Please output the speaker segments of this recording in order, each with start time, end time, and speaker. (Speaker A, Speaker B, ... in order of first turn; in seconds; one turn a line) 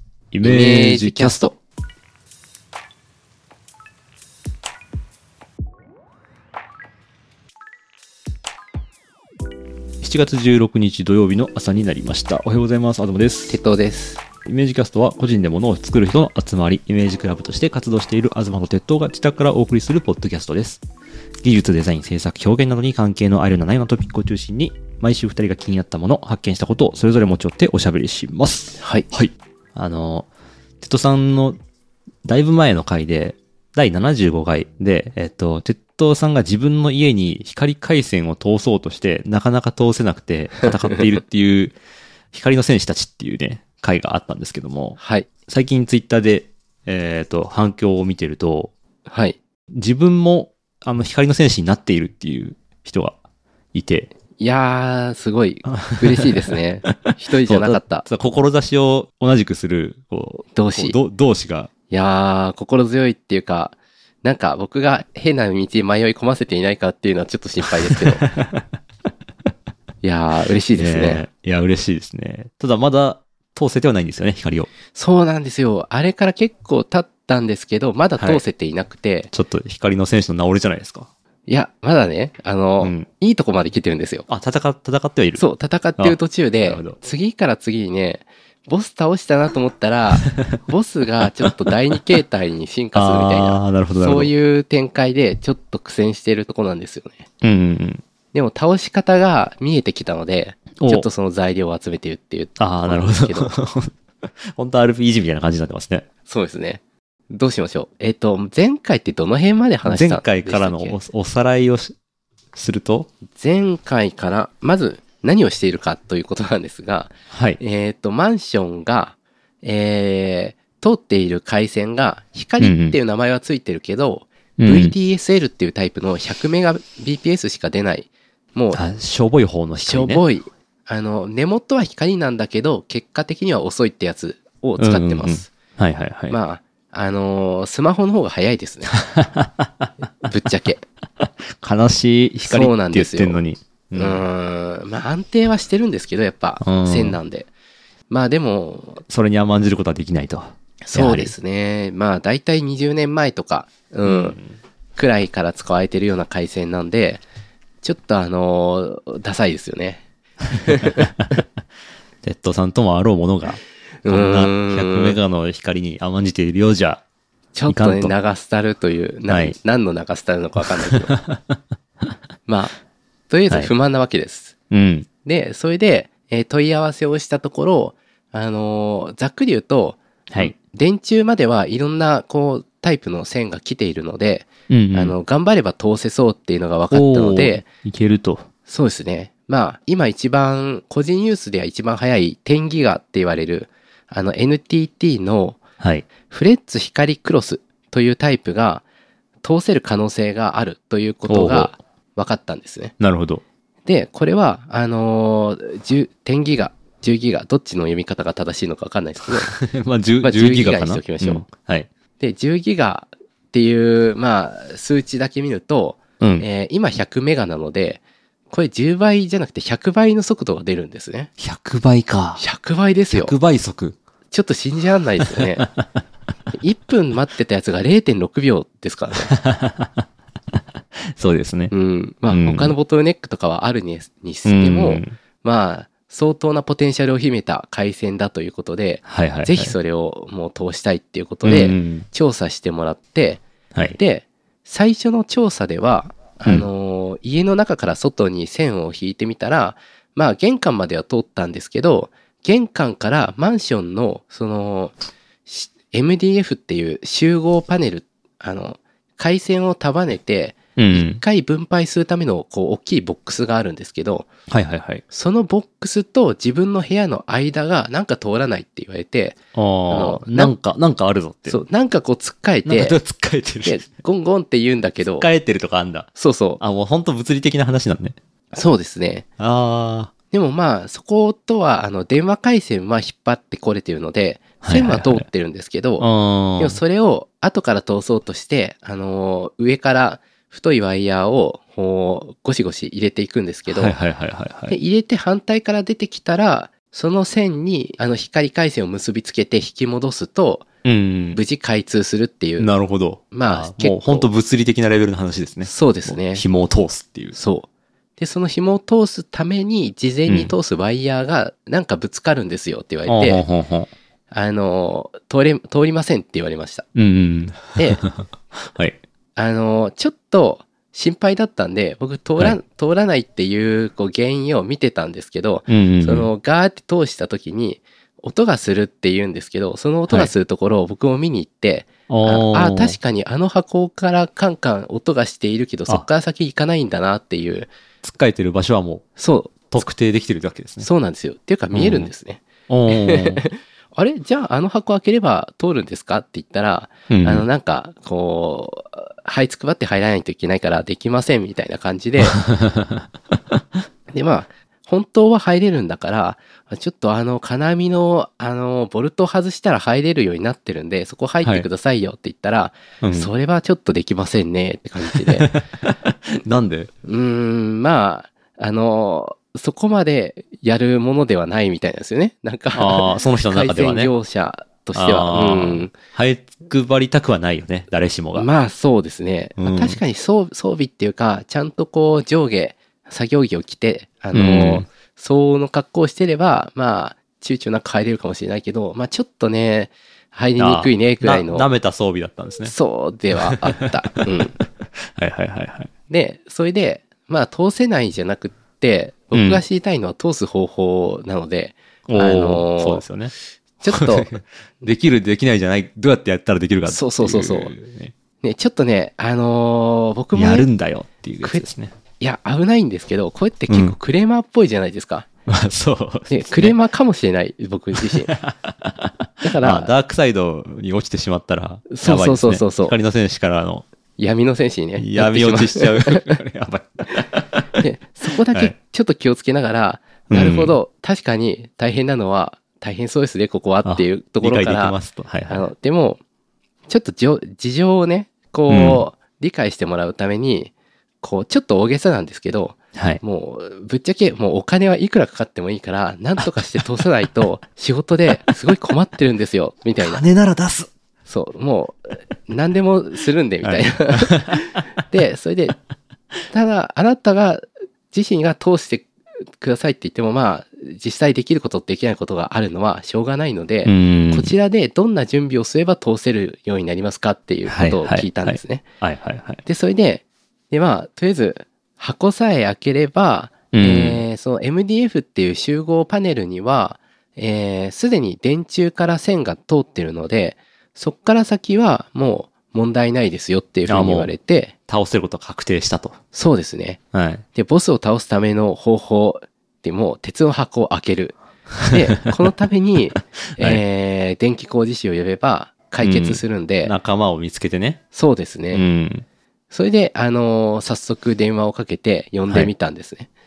Speaker A: 0.3-1.5
Speaker B: 0.4-1.5
Speaker A: 10.0-13.6
Speaker B: 13.5-14.2
Speaker A: 14.4-20.8
Speaker A: 21.4-30.3
Speaker B: 28.8-29.1
Speaker A: 30.8-31.6
Speaker A: 32.2-41.8
Speaker A: 42.3-48.7
Speaker B: 45.0-45.3
Speaker B: 49.1-49.4
Speaker A: 49.7-53.2
Speaker A: 53.7-54.1
Speaker B: 54.4-58.0
Speaker A: 55.7-61.7
Speaker B: 60.5-61.0
Speaker B: 61.9-68.2
Speaker A: 67.9-68.6
Speaker B: 70.0-71.2
Speaker A: 70.7-74.7
Speaker B: 74.9-79.3
Speaker A: 78.2-78.4
Speaker A: 79.3-81.1
Speaker B: 81.5-84.2
Speaker A: 82.8-83.1
Speaker A: 84.3-85.4
Speaker B: 85.4-97.2
Speaker A: 86.0-87.0
Speaker A: 90.2-90.6
Speaker A: 91.4-91.7
Speaker A: 92.9-94.3
Speaker A: 97.4-98.0
Speaker B: 98.3-103.5
Speaker A: 100.8-101.1
Speaker A: 102.6-106.1
Speaker B: 106.2-111.0
Speaker A: 109.8-111.9
Speaker A: 112.5-113.1
Speaker B: 113.3-128.8
Speaker A: 117.3-117.6
Speaker A: 122.6-123.0
Speaker A: 124.6-124.9
Speaker A: 128.7-130.2
Speaker B: 129.8-135.4
Speaker A: 134.8-136.4
Speaker B: 136.3-138.9
Speaker A: 138.9-139.9
Speaker B: 140.2-140.8
Speaker A: 141.2-144.2
Speaker B: 142.4-143.4
Speaker B: 143.9-147.5
Speaker A: 146.6-147.2
Speaker B: 148.1-149.0
Speaker A: 149.1-151.3
Speaker B: 150.8-154.4
Speaker A: 154.0-154.6
Speaker B: 154.9-157.2
Speaker B: 157.8-161.1
Speaker A: 160.9-161.3
Speaker A: 162.2-167.0
Speaker B: 164.0-165.2
Speaker B: 167.5-171.1
Speaker A: 167.7-168.1
Speaker A: 169.3-169.5
Speaker A: 171.1-171.6
Speaker B: 172.5-172.7
Speaker B: 173.3-174.5
Speaker A: 174.7-175.1
Speaker B: 175.2-187.6
Speaker A: 180.3-180.6
Speaker A: 184.7-185.2
Speaker A: 186.9-188.4
Speaker B: 188.7-195.6
Speaker A: 195.8-196.1
Speaker B: 196.3-198.8
Speaker B: 199.4-202.9
Speaker A: 201.3-201.7
Speaker A: 203.0-203.4
Speaker B: 203.8-209.5
Speaker A: 209.4-211.9
Speaker B: 210.2-211.4
Speaker B: 212.2-221.3
Speaker A: 216.2-216.4
Speaker A: 221.4-222.4
Speaker B: 222.4-223.3
Speaker A: 223.1-224.0
Speaker B: 224.3-225.7
Speaker A: 225.6-225.9
Speaker B: 226.5-229.3
Speaker A: 229.3-230.0
Speaker A: 231.2-231.7
Speaker B: 231.7-243.4
Speaker A: 232.3-232.7
Speaker A: 234.4-235.2
Speaker A: 239.1-239.7
Speaker A: 241.4-242.1
Speaker B: 244.0-254.9
Speaker B: 255.5-264.3
Speaker A: 260.8-261.2
Speaker A: 264.5-265.0
Speaker B: 265.1-269.4
Speaker A: 269.5-271.6
Speaker B: 269.9-270.5
Speaker B: 271.5-273.0
Speaker A: 272.6-273.8
Speaker B: 273.6-275.3
Speaker A: 275.0-278.2
Speaker B: 276.2-276.6
Speaker B: 278.5-279.2
Speaker A: 279.4-280.1
Speaker B: 280.3-286.1
Speaker A: 284.6-285.3
Speaker A: 286.0-286.8
Speaker B: 286.6-293.9
Speaker A: 293.7-294.8
Speaker B: 294.7-300.7
Speaker A: 300.8-301.4
Speaker B: 301.3-302.7
Speaker A: 302.6-307.4
Speaker B: 303.3-304.3
Speaker B: 305.6-306.4
Speaker B: 307.3-307.7
Speaker B: 308.2-313.4
Speaker A: 310.3-310.5
Speaker A: 313.1-313.9
Speaker B: 314.3-316.9
Speaker A: 316.9-319.0
Speaker B: 317.8-318.0
Speaker B: 319.4-337.7
Speaker A: 325.7-326.3
Speaker A: 332.1-333.0
Speaker A: 338.0-339.1
Speaker B: 339.2-339.9
Speaker A: 339.7-340.9
Speaker B: 340.8-352.4
Speaker A: 341.7-342.1
Speaker A: 342.7-343.5
Speaker A: 347.1-347.5
Speaker A: 352.2-353.0
Speaker B: 354.1-365.5
Speaker A: 363.0-363.3
Speaker A: 365.3-366.9
Speaker B: 367.0-375.9
Speaker A: 372.7-374.1
Speaker A: 374.9-378.5
Speaker B: 378.3-391.7
Speaker A: 379.6-380.0
Speaker A: 384.3-384.9
Speaker A: 390.6-392.7
Speaker B: 392.6-394.6
Speaker A: 393.3-394.2
Speaker A: 395.1-395.9
Speaker B: 396.1-403.0
Speaker A: 399.3-399.6
Speaker A: 402.1-403.3
Speaker B: 403.8-404.3
Speaker A: 403.9-408.1
Speaker B: 406.9-407.7
Speaker B: 408.4-410.7
Speaker A: 410.3-411.9
Speaker B: 412.2-415.3
Speaker A: 413.7-413.9
Speaker A: 415.5-416.8
Speaker B: 416.3-418.3
Speaker A: 418.0-423.9
Speaker B: 419.4-419.9
Speaker B: 421.9-422.9
Speaker B: 424.2-426.3
Speaker A: 425.0-427.8
Speaker B: 427.8-435.0
Speaker A: 428.5-428.7
Speaker A: 430.3-430.8
Speaker A: 433.8-435.7
Speaker B: 435.5-436.2
Speaker B: 436.9-440.7
Speaker A: 438.7-439.0
Speaker B: 441.2-450.2
Speaker A: 442.9-443.2
Speaker A: 450.0-450.9
Speaker B: 451.3-455.8
Speaker A: 453.6-454.9
Speaker B: 456.5-468.8
Speaker A: 463.8-464.5
Speaker A: 467.6-469.6
Speaker B: 469.6-484.7
Speaker A: 473.7-474.2
Speaker A: 483.9-484.3
Speaker A: 484.9-486.2
Speaker B: 486.3-487.0
Speaker A: 487.1-487.4
Speaker B: 487.5-496.9
Speaker A: 491.8-492.2
Speaker A: 496.0-498.0
Speaker B: 498.1-498.8
Speaker A: 498.7-499.2
Speaker B: 499.7-503.3